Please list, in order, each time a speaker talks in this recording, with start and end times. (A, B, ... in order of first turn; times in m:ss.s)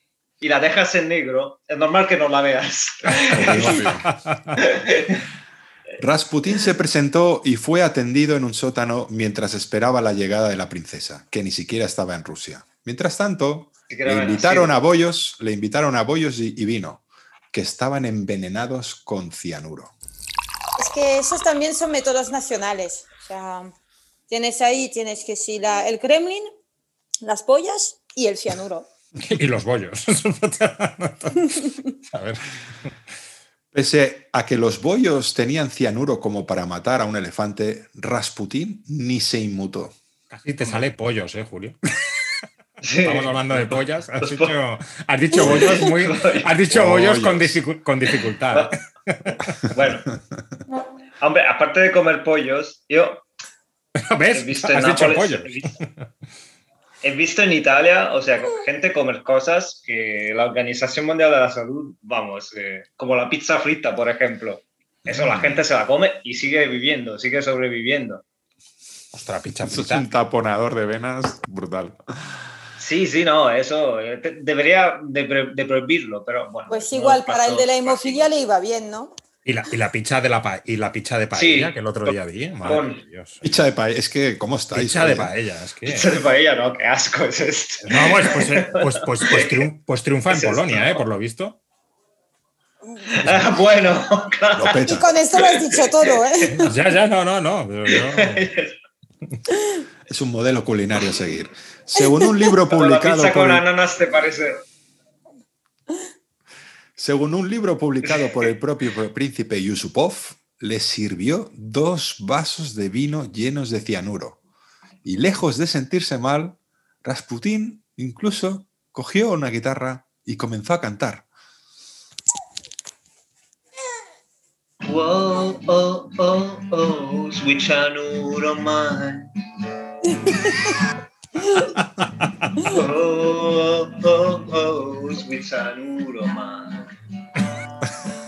0:00.4-0:03.8 A
0:03.3-0:04.1 B
0:03.3-0:04.6 C
0:04.6-0:05.2 A
0:06.0-0:19.9 B
0:13.9-0:14.7 A
0:20.8-0:23.7 D
0:24.3-0:26.5 D
0:27.2-0:28.9 D
0:29.2-0:32.4 C
0:33.7-0:39.9 B
0:40.3-0:41.8 C
0:42.8-0:44.5 A
0:43.0-0:49.4 C
0:45.4-0:46.5 A
0:46.7-0:47.6 B
0:49.7-0:50.1 A
0:51.2-0:53.2 A
0:54.0-0:56.0 C
0:54.3-0:55.7 A
0:57.0-1:08.2 A
1:09.1-1:10.1 C
1:09.6-1:12.0 B
1:12.8-1:18.3 A
1:16.7-1:19.1 D
1:19.4-1:23.6 C
1:21.3-1:23.0 A
1:23.4-1:25.3 B
1:24.7-1:26.2 C
1:25.8-1:29.6 A
1:27.8-1:31.6 C
1:30.3-1:31.0 A
1:33.1-1:35.6 A
1:34.5-1:35.1 B
1:34.8-1:36.6 D
1:36.6-1:38.5 C
1:37.9-1:38.7 A
1:40.1-1:43.6 B
1:42.7-1:44.6 A
1:47.0-1:54.4 B
1:48.1-1:48.3 A
1:55.0-2:01.2 B
2:04.8-2:09.3 A
2:10.2-2:10.7 D
2:12.6-2:16.9 A